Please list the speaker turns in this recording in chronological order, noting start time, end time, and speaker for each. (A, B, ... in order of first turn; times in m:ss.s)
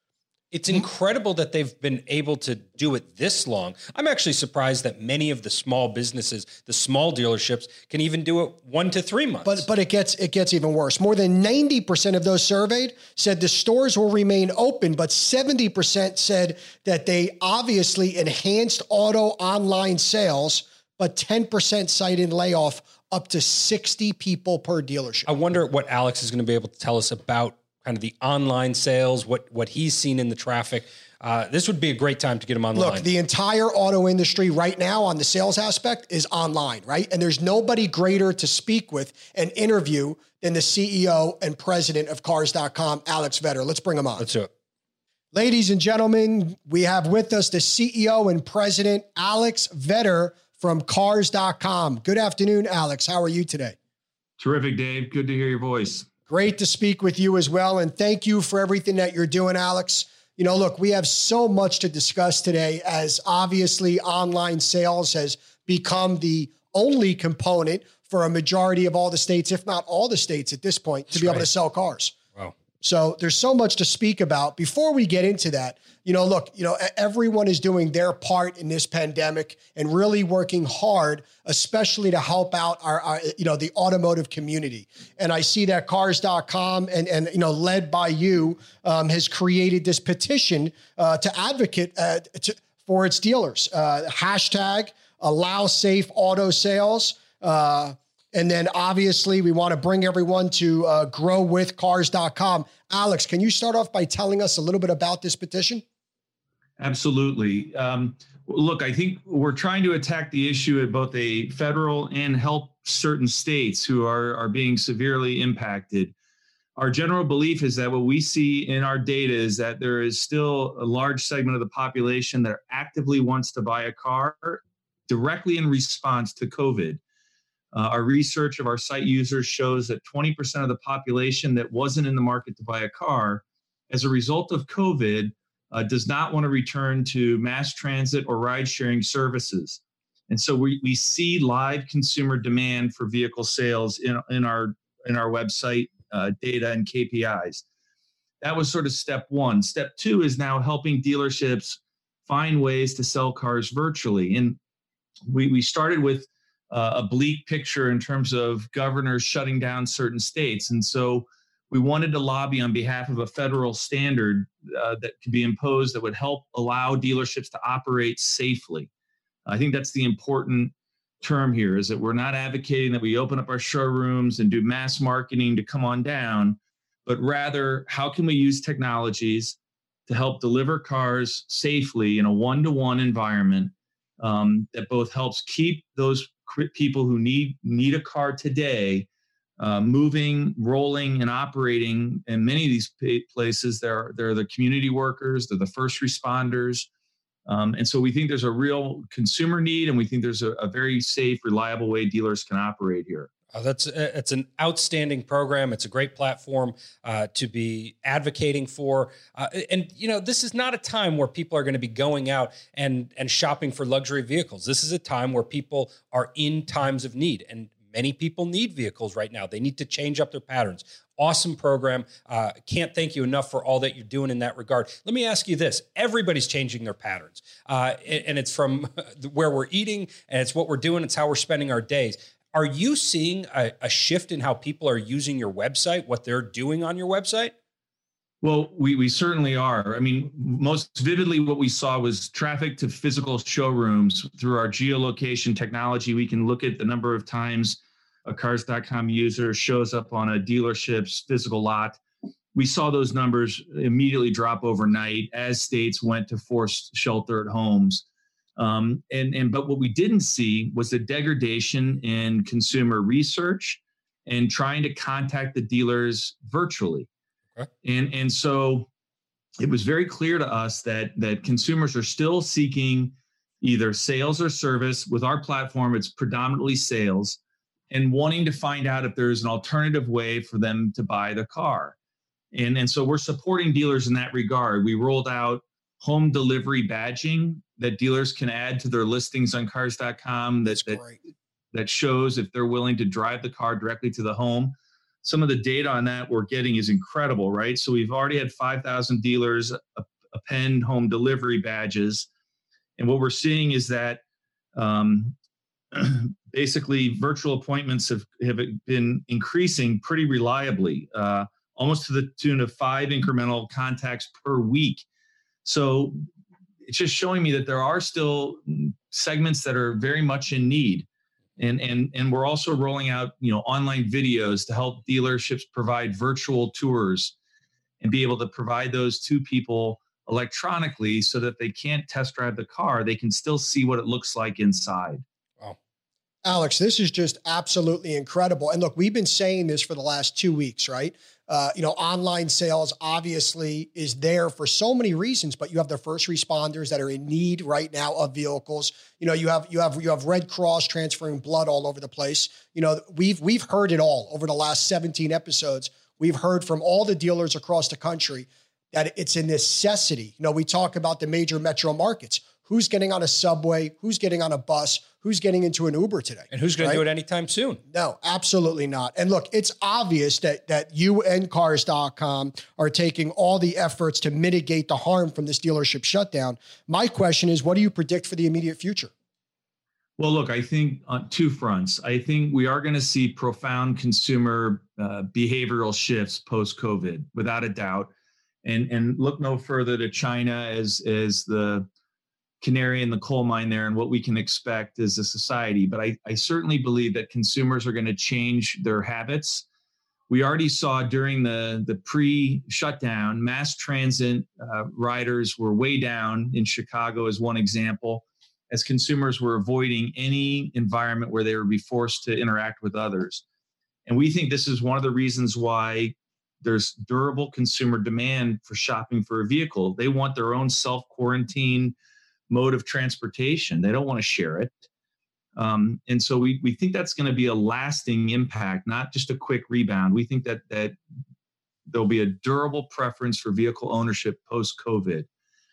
0:00.5-0:09.6 A
0:09.4-0:25.3 B
0:25.3-0:33.1 A
0:32.8-0:44.3 B
0:44.2-0:44.5 A
0:45.3-0:53.8 B
0:54.4-0:56.1 C
0:56.3-1:12.2 B
1:11.1-1:11.5 A
1:12.8-1:45.8 B
1:46.8-1:56.1 C
1:56.8-2:07.0 C
2:07.7-2:27.6 C
2:28.4-2:34.6 C
2:35.3-2:48.9 C
2:49.5-3:09.1 C
3:09.6-3:16.9 C
3:17.5-3:23.3 C
3:23.5-3:57.5 A
3:58.4-4:12.0 C
4:12.6-4:18.0 C
4:18.6-4:27.1 C
4:27.8-4:28.9 C
4:29.6-4:37.4 C
4:37.9-4:42.0 C
4:42.5-4:51.0 C
4:50.8-4:51.2 B
4:51.7-5:02.3 C
5:03.0-5:04.2 C
5:04.8-5:05.4 C
5:05.9-5:15.0 C
5:15.6-5:16.2 C
5:16.8-5:21.1 C
5:21.6-5:27.3 C
5:28.0-5:35.2 C
5:36.4-6:07.0 B
6:06.5-6:07.8 A
6:07.9-6:19.1 B
6:20.2-6:28.1 C
6:28.6-6:31.9 C
6:32.6-6:39.6 C
6:40.3-6:53.4 C
6:54.1-7:02.0 C
7:02.5-7:04.8 C
7:05.6-7:11.0 C
7:11.9-7:15.3 C